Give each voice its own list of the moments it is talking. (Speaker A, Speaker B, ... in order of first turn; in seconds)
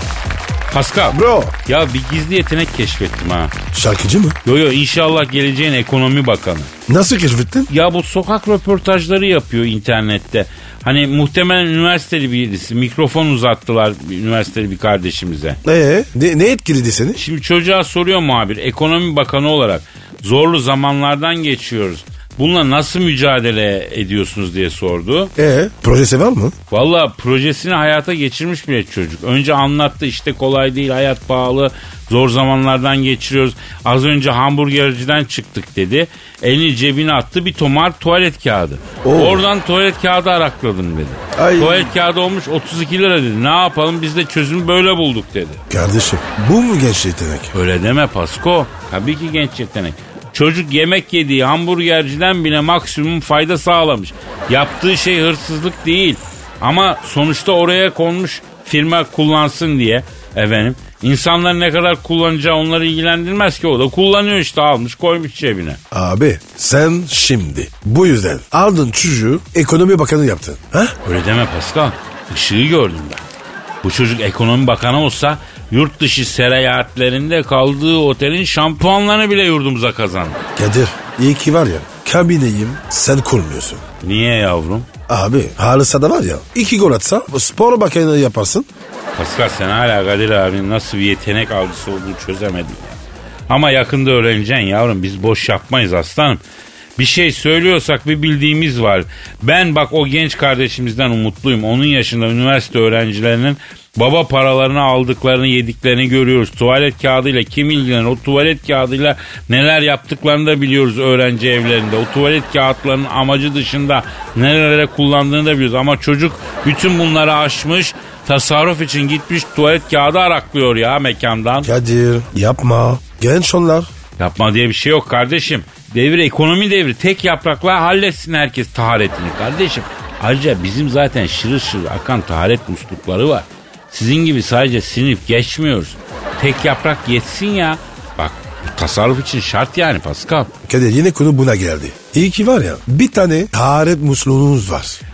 Speaker A: 0.7-3.5, 4.5-6.7, 7.7-15.6, 17.2-25.3, 26.7-45.6, 47.5-65.8, 71.0-73.2, 73.8-80.5, 84.0-84.9, 89.2-96.4, 97.0-121.7, 124.2-140.5
Speaker B: 1.1-1.5, 3.7-4.4, 6.9-7.7, 15.6-17.2, 25.4-26.6, 39.0-39.5, 41.4-41.9, 45.7-47.5, 65.9-71.0, 80.6-83.8, 85.1-88.7, 121.6-123.9, 140.7-145.0